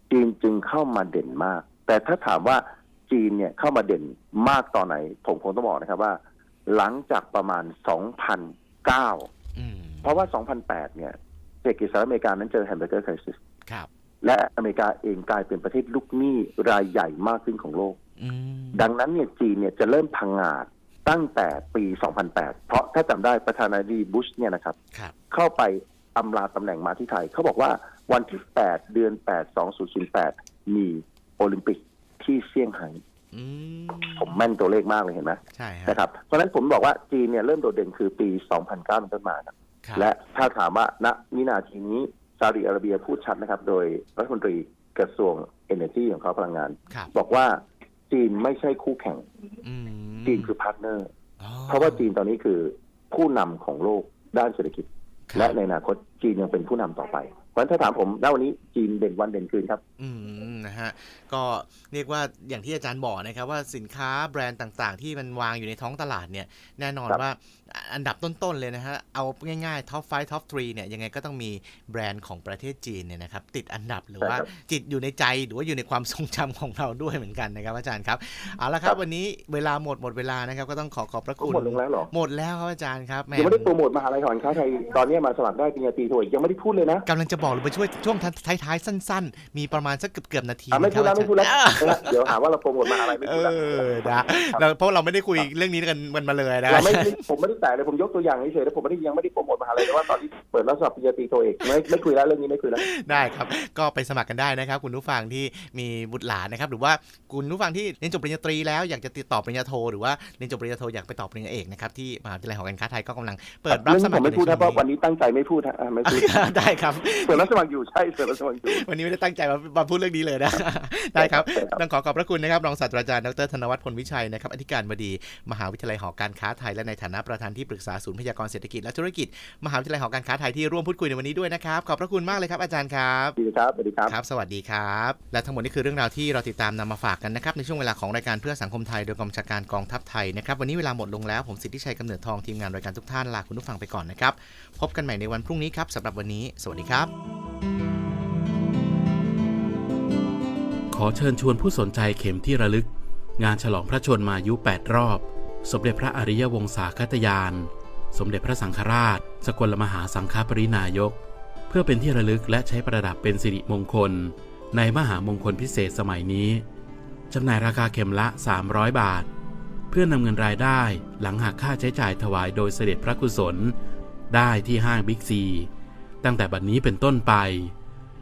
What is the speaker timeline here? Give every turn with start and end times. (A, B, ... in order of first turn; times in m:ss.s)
0:00.1-0:09.3 A
0:09.6-0:10.2 B
0:10.0-0:13.4 A
0:14.2-0:18.0 A
0:18.2-0:18.9 B
0:18.7-0:24.8 A
0:25.3-0:33.0 A
0:33.3-0:34.5 B
0:34.1-0:49.2 A
0:35.5-0:36.0 B
0:49.6-0:50.5 B
0:50.2-0:51.1 A
0:51.4-0:52.1 B
0:51.7-0:59.8 A
0:55.3-0:55.6 B
1:00.0-1:23.7 B
1:14.2-1:14.5 A
1:21.4-1:22.1 A
1:23.3-1:27.1 A
1:27.1-1:32.3 B
1:30.7-1:34.6 A
1:32.9-1:37.2 B
1:36.7-1:43.0 A
1:42.8-1:54.8 B
1:53.7-1:56.4 A
1:56.1-1:57.5 B
1:57.2-1:58.9 A
1:58.7-2:13.4 B
2:01.2-2:01.8 A
2:13.4-2:14.1 A
2:14.1-2:27.1 B
2:30.9-2:41.2 C
2:41.7-2:46.6 C
2:47.3-2:49.3 C
2:49.9-2:53.7 C
2:54.3-2:55.7 C
2:56.2-2:57.7 C